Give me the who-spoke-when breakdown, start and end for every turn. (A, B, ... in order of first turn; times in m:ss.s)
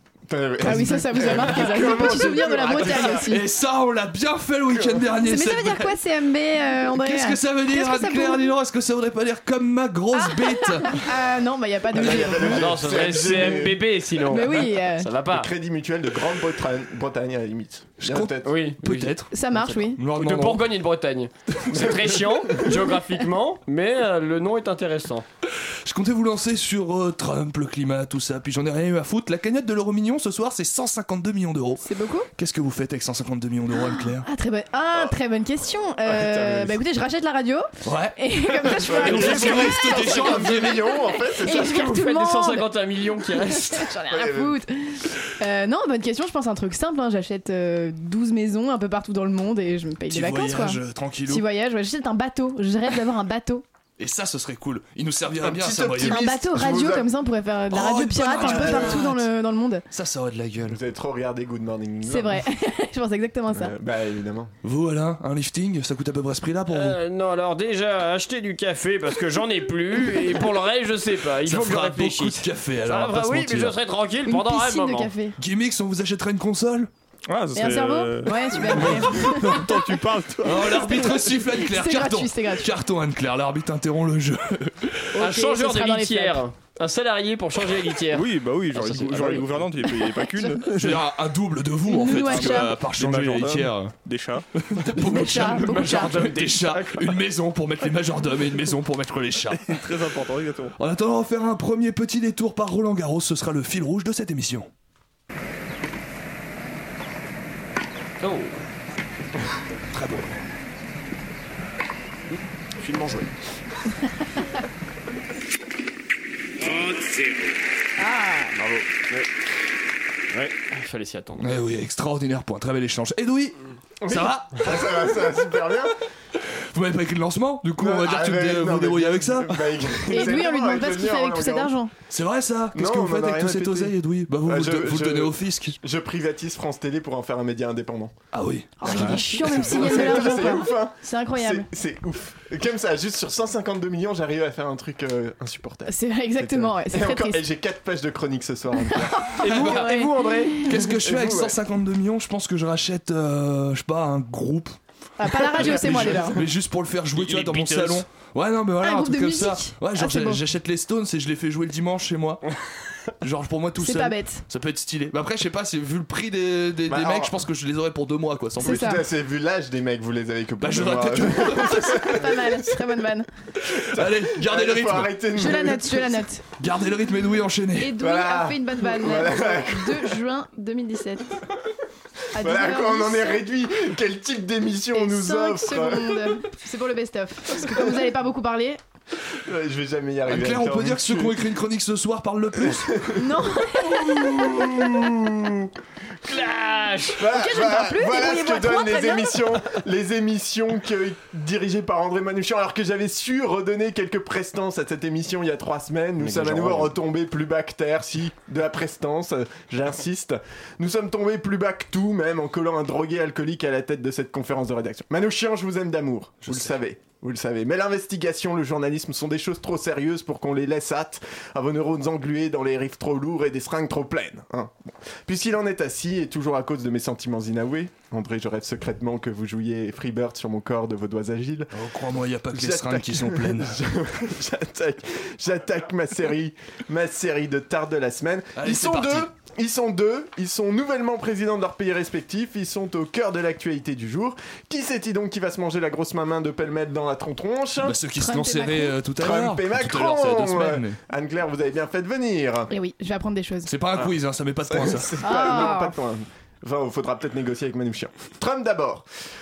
0:00.3-0:03.3 A
0:00.6-0:03.4 B
0:03.0-0:06.0 C
0:04.7-0:05.0 A
0:05.2-0:08.5 B
0:07.0-0:11.1 C
0:10.1-0:12.7 B
0:11.9-0:14.6 A
0:11.9-0:15.5 D
0:14.2-0:15.1 B
0:15.2-0:18.6 A
0:18.0-0:19.3 C
0:18.4-0:25.2 D
0:19.3-0:20.0 B
0:19.9-0:20.7 C
0:25.8-0:31.8 C
0:31.8-0:32.3 B
0:32.4-0:34.2 C
0:34.2-0:42.7 B
0:36.0-0:36.8 A
0:37.8-0:40.8 C
0:38.8-0:40.7 D
0:38.9-0:41.7 A
0:41.4-0:43.9 D
0:43.3-0:53.6 B
0:44.1-0:44.5 A
0:50.1-0:51.4 C
0:54.0-0:56.2 C
0:55.3-0:57.1 A
0:56.0-0:59.8 B
0:57.7-0:59.3 C
0:58.4-0:59.1 A
0:59.9-1:00.8 C
1:00.7-1:02.4 A
1:02.0-1:03.7 B
1:03.5-1:04.5 A
1:04.6-1:07.0 C
1:06.7-1:15.1 D
1:11.3-1:13.8 C
1:14.2-1:15.4 B
1:15.4-1:16.9 C
1:17.3-1:20.9 E
1:17.5-1:19.8 B
1:20.4-1:24.9 C
1:20.6-1:22.7 B
1:25.1-1:26.4 B
1:25.2-1:29.8 D
1:28.1-1:31.0 E
1:30.7-1:33.9 C
1:31.9-1:32.7 B
1:32.0-1:34.4 E
1:34.6-1:39.9 C
1:35.0-1:36.2 B
1:35.3-1:37.0 D
1:39.7-1:40.8 E
1:40.8-1:44.7 C
1:48.2-1:48.5 D
1:49.9-1:50.4 C
1:52.8-1:53.3 D
1:56.6-1:57.4 D
1:58.1-1:58.5 B
1:58.5-1:59.3 D
2:00.3-2:01.6 D
2:01.4-2:03.6 C
2:04.0-2:05.9 A
2:04.1-2:04.7 C
2:06.7-2:09.8 C
2:07.8-2:11.8 A
2:10.1-2:11.9 B
2:12.1-2:15.8 C
2:12.7-2:18.1 A
2:18.3-2:20.2 C
2:18.8-2:21.7 B
2:18.8-2:29.4 A
2:25.9-2:27.4 B
2:29.1-2:30.6 B
2:29.4-2:30.7 D
2:29.4-2:29.9 C
2:30.6-2:34.8 C
2:30.7-2:31.6 A
2:35.2-2:36.4 B
2:35.3-2:42.4 C
2:37.1-2:38.0 D
2:38.8-2:40.4 B
2:43.2-2:49.0 C
2:43.8-2:44.4 B
2:46.9-2:47.3 A
2:48.6-2:49.0 B
2:48.6-2:52.5 A
2:50.6-2:52.6 C
2:51.8-2:53.3 B
2:53.6-2:55.1 C
2:53.8-2:56.2 A
2:55.4-2:56.4 B
2:56.6-2:58.0 C
2:57.8-3:01.4 B
2:58.0-3:00.2 A
3:02.3-3:03.4 B
3:02.4-3:06.4 A
3:04.9-3:08.8 B
3:09.4-3:11.4 A
3:10.3-3:13.0 C
3:12.6-3:15.6 A
3:13.2-3:14.1 B
3:14.2-3:15.1 D
3:16.2-3:17.2 D
3:17.2-3:51.7 A
3:17.3-3:19.4 B
3:26.2-3:26.9 D
3:36.4-3:36.7 C
3:51.7-3:53.8 C
3:52.5-4:08.0 A
3:58.6-3:59.3 C
4:07.8-4:11.0 C
4:08.2-4:09.0 B
4:09.2-4:12.7 A
4:12.7-4:13.7 B
4:13.6-4:15.1 C
4:14.7-4:19.0 A
4:15.2-4:15.9 B